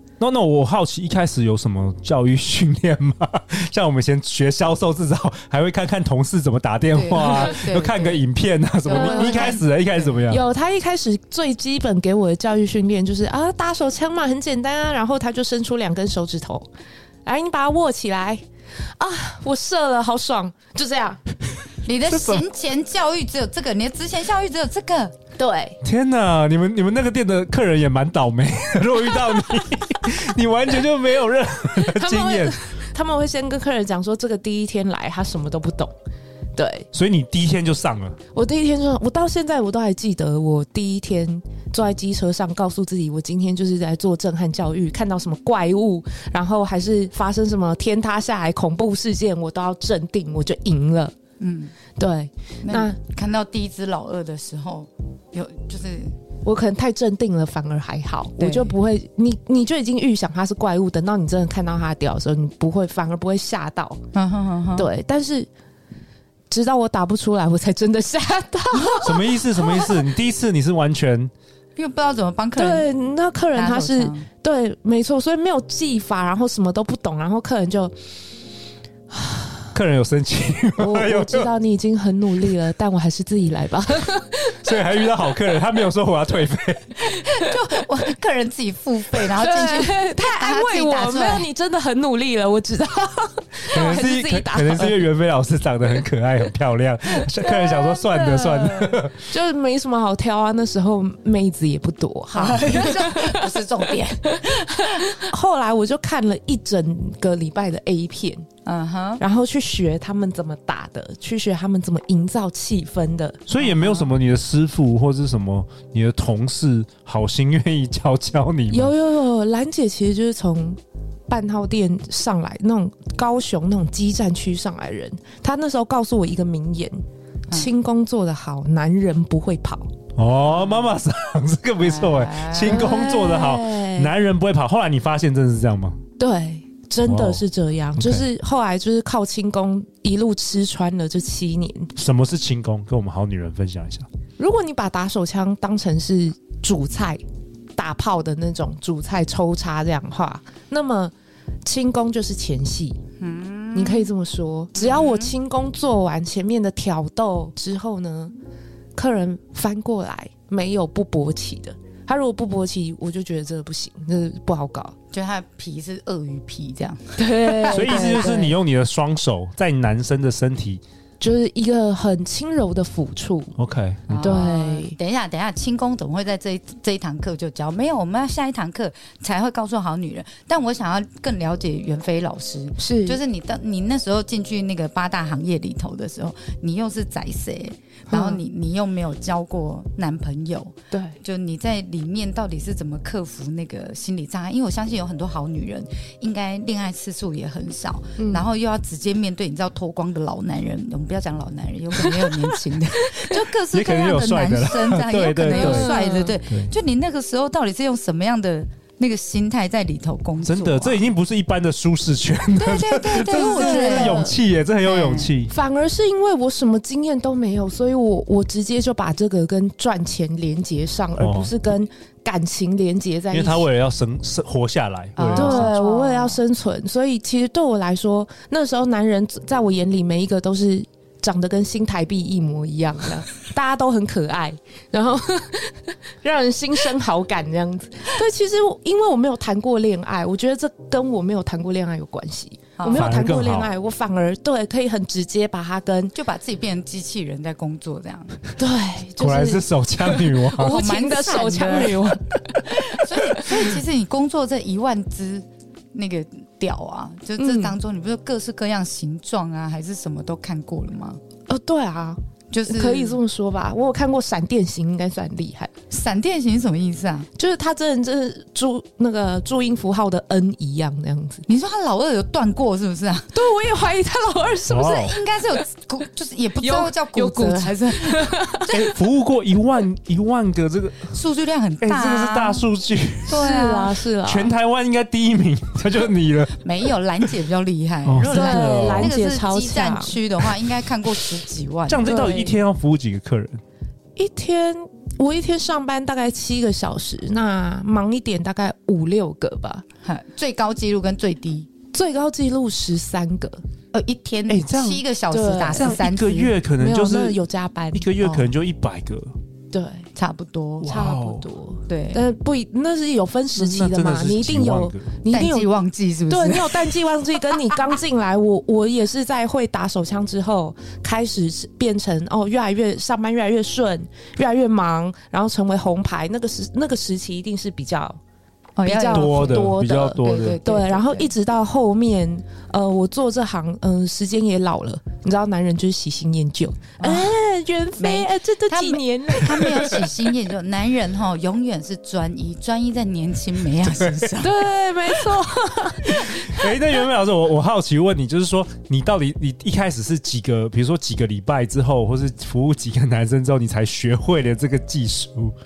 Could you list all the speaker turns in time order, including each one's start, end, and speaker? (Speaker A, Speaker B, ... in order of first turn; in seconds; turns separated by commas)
Speaker A: 0.2-10.4, Speaker B: 6.9-8.2, Speaker C: 7.2-7.5, Speaker B: 8.8-9.7, Speaker C: 8.9-9.7, Speaker C: 10.2-16.7, Speaker C: 17.2-18.4, Speaker C: 18.9-21.2, Speaker B: 21.8-25.1, Speaker C: 22.1-22.4, Speaker C: 25.4-25.8, Speaker A: 25.8-32.6, Speaker C: 31.8-35.9, Speaker C: 36.5-36.9, Speaker A: 36.9-38.2, Speaker C: 38.3-51.1, Speaker B: 51.4-51.7, Speaker C: 52.0-53.0, Speaker B: 52.6-56.1, Speaker C: 56.4-64.0, Speaker B: 58.4-58.7, Speaker B: 64.1-64.9, Speaker C: 64.7-65.5, Speaker C: 66.5-70.0, Speaker B: 68.8-69.1, Speaker A: 69.0-71.3, Speaker B: 71.8-72.9, Speaker C: 72.5-77.9, Speaker B: 73.5-74.3, Speaker C: 79.1-79.7, Speaker A: 79.7-81.5, Speaker C: 80.8-84.7, Speaker A: 84.6-87.0, Speaker B: 87.0-91.5, Speaker C: 89.3-95.1, Speaker A: 93.7-99.2, Speaker B: 97.3-99.0, Speaker C: 99.3-103.6, Speaker B: 102.3-105.2, Speaker C: 104.3-108.5, Speaker B: 108.7-109.2, Speaker C: 109.2-113.4, Speaker A: 113.5-118.9, Speaker B: 113.6-114.1, Speaker C: 118.7-129.9, Speaker A: 130.2-136.0, Speaker B: 130.4-130.8, Speaker B: 131.8-132.9, Speaker C: 132.6-134.1, Speaker C: 136.2-141.9, Speaker A: 137.0-137.4, Speaker A: 137.9-138.2, Speaker A: 141.9-144.1, Speaker C: 144.4-147.2, Speaker C: 147.8-151.1, Speaker C: 151.6-153.0, Speaker B: 153.2-154.1, Speaker C: 153.7-158.3, Speaker B: 154.8-155.3, Speaker C: 158.9-164.9, Speaker B: 165.1-168.3, Speaker C: 167.2-168.5, Speaker A: 167.7-170.8, Speaker C: 171.2-173.5, Speaker A: 173.6-174.3, Speaker B: 174.1-211.0, Speaker C: 174.2-174.9, Speaker C: 182.8-183.2, Speaker C: 188.1-188.4, Speaker C: 190.9-191.2, Speaker C: 198.2-198.4, Speaker C: 202.0-202.6, Speaker C: 203.1-203.4, Speaker A: 203.7-206.7, Speaker C: 205.4-206.4, Speaker A: 210.4-215.5, Speaker B: 212.6-214.3, Speaker C: 213.3-214.3, Speaker B: 214.8-215.3, Speaker C: 215.5-223.7, Speaker A: 221.2-221.5, Speaker A: 223.3-225.7, Speaker B: 225.2-226.4, Speaker C: 225.3-246.1, Speaker B: 242.8-243.1, Speaker A: 242.8-243.7, Speaker B: 246.1-248.4, Speaker C: 248.6-252.8, Speaker A: 249.2-250.8, Speaker B: 250.6-252.1, Speaker B: 252.7-261.2, Speaker C: 257.4-257.8, Speaker C: 261.5-265.7, Speaker B: 262.5-263.2, Speaker B: 265.9-267.3, Speaker C: 267.4-271.4, Speaker B: 271.5-273.3, Speaker C: 273.3-275.1, Speaker A: 274.7-275.2, Speaker B: 274.7-278.9, Speaker C: 276.6-278.9, Speaker A: 278.7-281.1, Speaker B: 281.1-282.6, Speaker A: 281.8-283.5, Speaker C: 283.3-284.5, Speaker B: 283.3-284.0, Speaker A: 284.2-286.6, Speaker B: 286.6-292.2, Speaker A: 288.1-289.1, Speaker C: 288.2-290.2, Speaker A: 291.9-293.6, Speaker C: 292.0-292.6, Speaker C: 294.1-299.8, Speaker B: 300.0-301.7, Speaker C: 301.9-303.6, Speaker B: 303.9-306.6, Speaker A: 304.5-305.0, Speaker C: 305.3-306.0, Speaker A: 305.7-307.4, Speaker C: 306.8-308.5, Speaker A: 307.9-309.3, Speaker C: 309.7-310.1, Speaker B: 310.1-310.9, Speaker A: 310.8-311.5, Speaker C: 310.8-315.7, Speaker B: 311.9-312.2, Speaker A: 313.6-315.1, Speaker B: 315.3-317.0, Speaker C: 316.3-328.2, Speaker B: 328.8-331.3, Speaker C: 328.8-340.1, Speaker A: 329.1-330.6, Speaker B: 337.0-337.3, Speaker B: 338.0-344.6, Speaker C: 344.4-346.8, Speaker A: 346.1-355.5